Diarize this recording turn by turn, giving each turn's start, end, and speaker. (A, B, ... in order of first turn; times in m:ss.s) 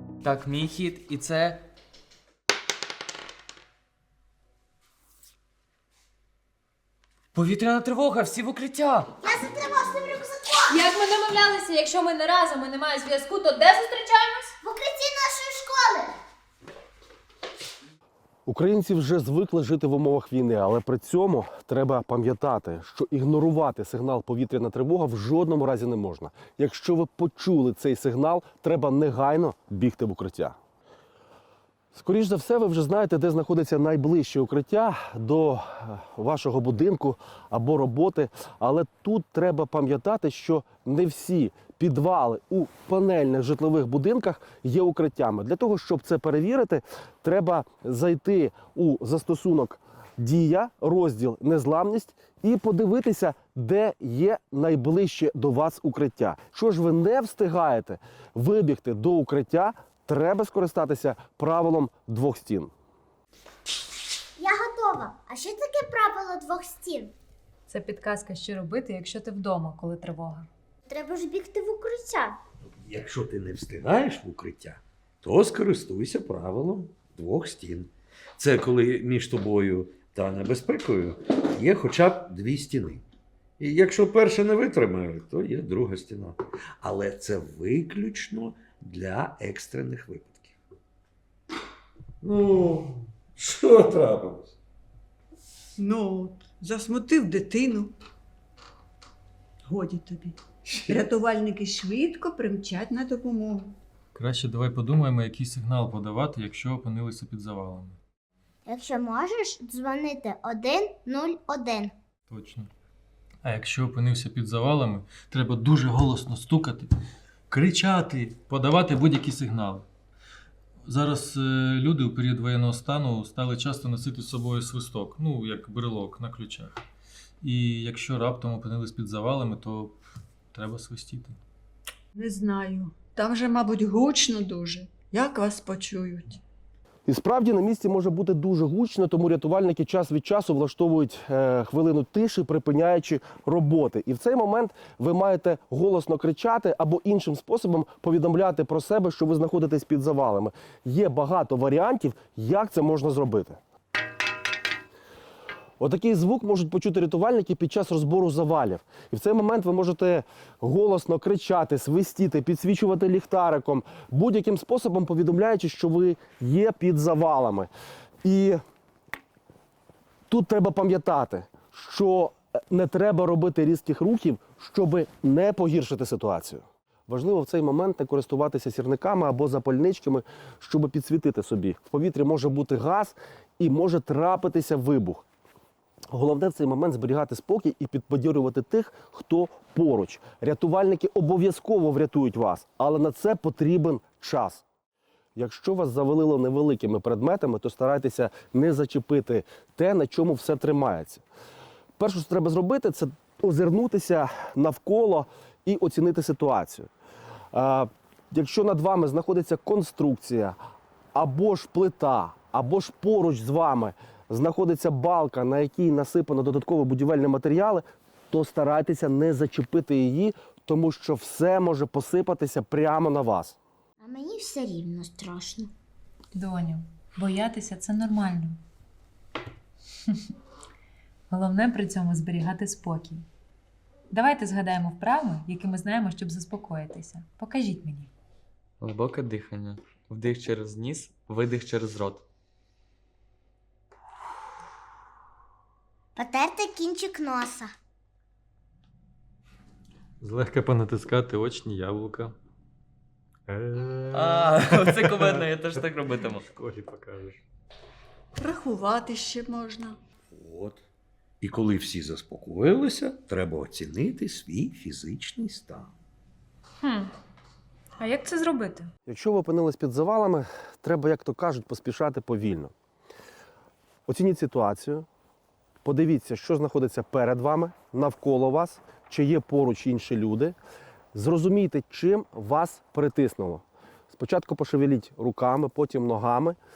0:00.2-0:01.6 A
0:07.3-0:09.1 A
0:09.2-0:10.8 B
0:10.7-0:14.5 C
0:14.6-0:16.2 B
0:18.5-0:30.6 D
0:31.9-1:02.7 D
1:04.4-1:07.1 B
1:07.7-1:10.5 C
1:10.9-1:12.4 B
1:12.8-1:23.0 E
1:23.6-1:30.6 E
1:32.2-1:34.5 E
1:35.8-1:37.9 F
1:39.7-1:40.4 F
1:40.9-1:43.8 F
1:44.1-1:48.0 G
1:48.7-1:51.9 B
1:52.3-1:52.7 G
1:53.4-1:56.9 G
1:57.5-1:59.9 G
2:00.9-2:06.8 G
2:07.4-2:10.0 G
2:10.5-2:11.4 G
2:12.2-2:16.4 F
2:17.1-2:33.6 D
2:35.8-2:47.7 D
2:48.2-2:48.6 D
2:50.3-3:05.3 D
3:06.1-3:14.6 D
3:15.4-3:21.2 D
3:22.0-3:26.9 D
3:27.5-3:30.6 D
3:31.2-3:43.6 D
3:44.0-3:45.7 B
3:46.3-3:48.6 C
3:51.3-3:53.2 C
3:54.1-3:58.1 C
3:58.8-4:02.2 A
4:06.2-4:07.7 B
4:10.2-4:12.4 G
4:13.5-4:15.4 G
4:14.1-4:16.5 A
4:16.4-4:17.4 G
4:18.4-4:20.0 F
4:20.3-4:20.8 E
4:21.4-4:25.9 E
4:26.8-4:27.1 C
4:28.0-4:28.9 C
4:29.1-4:32.7 D
4:34.1-4:35.1 D
4:35.8-4:40.6 D
4:41.1-4:46.6 D